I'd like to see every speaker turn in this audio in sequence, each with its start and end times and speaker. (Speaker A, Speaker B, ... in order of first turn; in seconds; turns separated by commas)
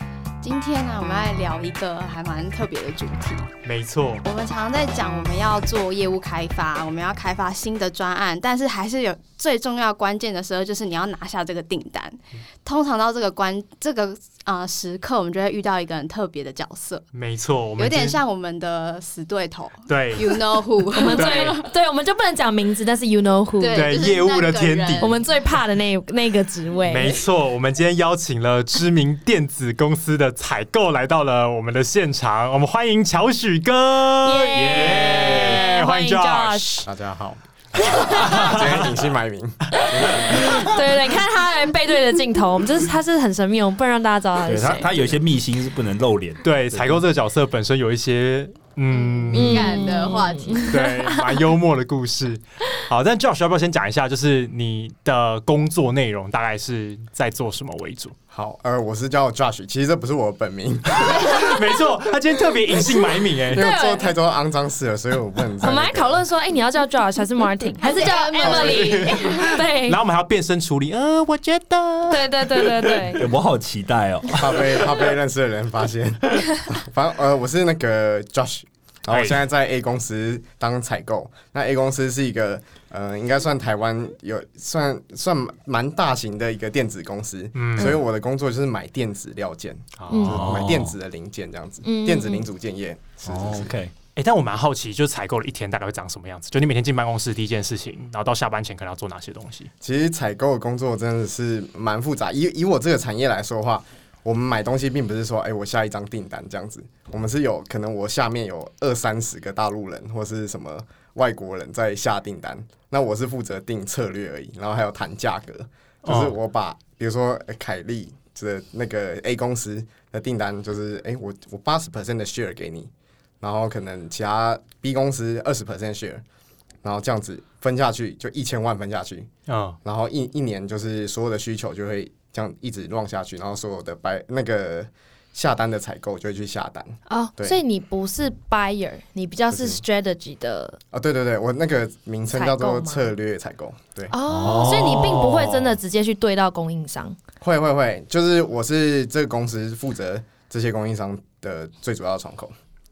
Speaker A: 0.4-3.5, Speaker B: 3.6-4.2, Speaker A: 4.2-17.1, Speaker B: 17.1-18.2, Speaker A: 17.8-21.7, Speaker B: 19.9-20.6, Speaker C: 20.9-24.0, Speaker B: 21.1-21.6, Speaker A: 23.6-25.2, Speaker B: 23.7-25.1, Speaker C: 25.0-27.2, Speaker B: 26.9-36.8, Speaker C: 34.2-36.9, Speaker D: 36.8-40.8, Speaker C: 37.9-38.5, Speaker B: 38.0-38.9, Speaker C: 39.8-44.9, Speaker E: 44.4-47.0, Speaker B: 46.4-58.1, Speaker A: 48.9-50.7, Speaker C: 49.3-51.4, Speaker D: 58.3-61.6, Speaker B: 61.0-63.6, Speaker D: 63.5-66.2, Speaker C: 63.5-64.2, Speaker C: 65.6-70.0, Speaker A: 67.8-69.6, Speaker B: 68.4-73.0, Speaker C: 72.1-73.3, Speaker E: 73.0-74.9, Speaker D: 74.3-93.7, Speaker B: 79.1-79.4, Speaker B: 87.5-88.0, Speaker B: 90.0-90.5, Speaker C: 90.1-90.4, Speaker E: 90.3-90.9, Speaker C: 91.8-92.5, Speaker E: 93.3-93.9, Speaker B: 94.2-99.7, Speaker D: 99.8-126.2, Speaker B: 116.0-116.3, Speaker D: 126.8-129.3, Speaker B: 129.5-129.8, Speaker D: 129.8-137.6, Speaker C: 137.1-140.8, Speaker D: 139.5-139.8, Speaker D: 140.9-144.1, Speaker C: 142.3-143.1, Speaker C: 144.1-147.2, Speaker E: 144.3-145.5, Speaker B: 144.4-145.4, Speaker D: 147.4-152.5